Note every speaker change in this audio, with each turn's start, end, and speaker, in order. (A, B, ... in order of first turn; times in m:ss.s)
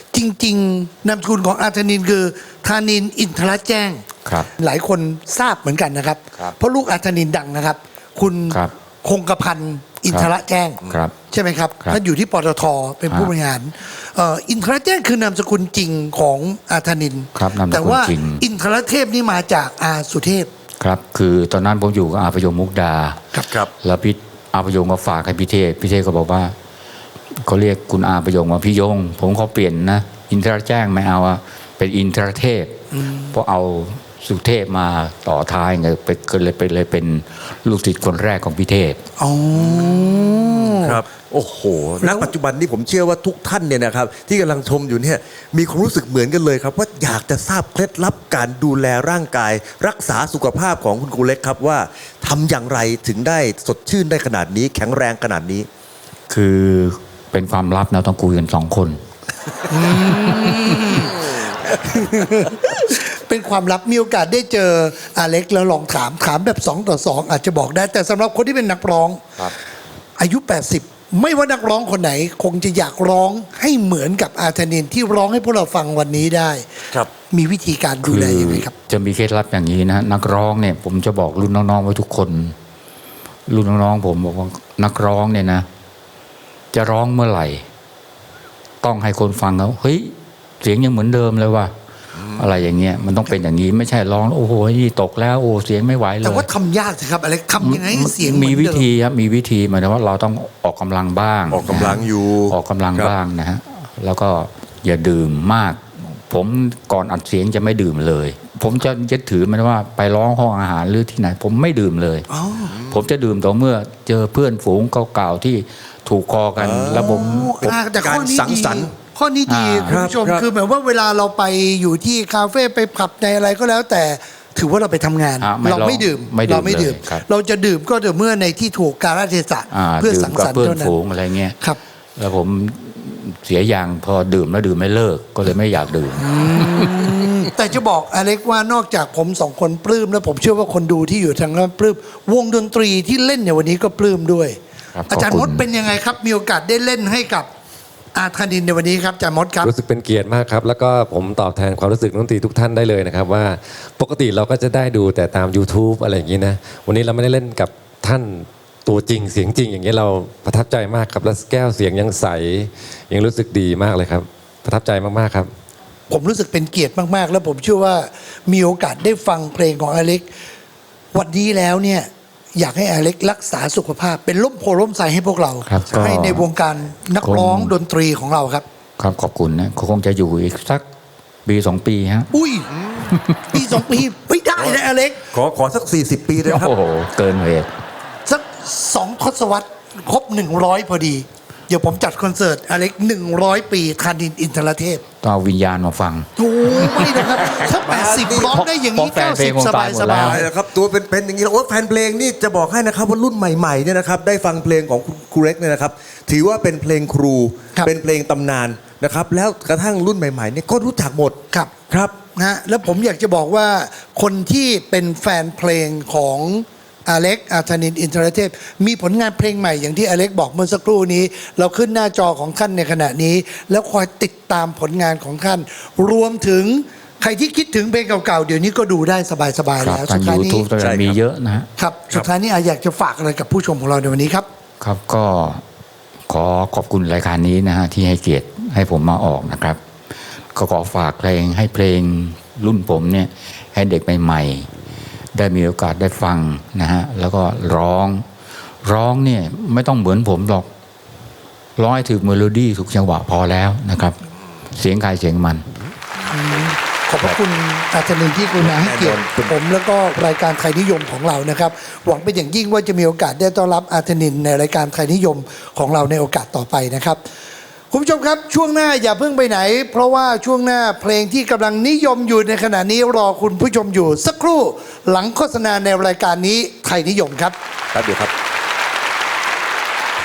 0:00.1-0:20.5 A
0:10.9-0:11.1 B
0:17.3-0:18.4 B
0:20.8-0:23.2 B
0:23.8-0:26.5 B
0:27.4-0:32.8 B
0:33.3-0:39.0 B
0:39.2-0:41.0 A
0:39.8-0:55.7 C
0:42.0-0:42.3 A
0:56.3-0:59.0 B
0:59.7-1:09.2 A
1:00.3-1:00.8 B
1:10.2-1:16.7 A
1:17.3-1:18.7 A
1:18.0-1:22.5 B
1:23.5-1:25.6 B
1:26.7-1:27.6 B
1:28.8-1:31.7 B
1:32.4-1:36.5 B
1:36.2-1:38.9 A
1:37.6-1:52.2 B
1:41.5-1:43.1 C
1:52.3-1:52.8 A
1:52.7-1:53.0 C
1:52.9-1:57.8 B
1:56.6-1:58.9 C
1:57.1-2:11.0 A
1:59.5-2:00.0 B
1:59.8-2:00.5 C
2:05.4-2:07.2 B
2:09.7-2:11.6 B
2:12.2-2:16.9 B
2:16.2-2:24.6 A
2:24.9-2:25.6 B
2:25.1-2:27.5 A
2:28.1-2:29.7 A
2:29.6-2:45.5 D
2:46.1-2:50.3 A
2:51.1-2:58.6 A
2:55.6-2:56.5 B
2:57.2-2:57.7 B
2:59.0-3:00.8 B
3:01.4-3:02.3 B
3:02.3-3:02.7 A
3:02.9-3:03.1 C
3:03.1-3:03.6 B
3:03.5-3:05.2 A
3:05.3-3:06.7 C
3:06.4-3:07.7 B
3:08.2-3:15.0 A
3:15.2-3:17.7 B
3:16.4-3:20.4 A
3:17.4-3:18.6 C
3:18.5-3:20.4 B
3:20.1-3:31.4 C
3:32.3-3:50.7 A
3:49.8-3:51.7 B
3:50.8-3:51.2 C
3:51.8-3:54.4 A
3:54.8-3:55.6 B
3:56.3-3:59.8 B
4:00.5-4:04.7 B
4:05.3-4:08.2 B
4:08.8-4:10.7 B
4:11.8-4:14.1 B
4:14.7-4:15.6 B
4:16.3-4:27.2 A
4:18.6-4:19.5 C
4:27.9-4:37.5 A
4:37.9-4:38.3 C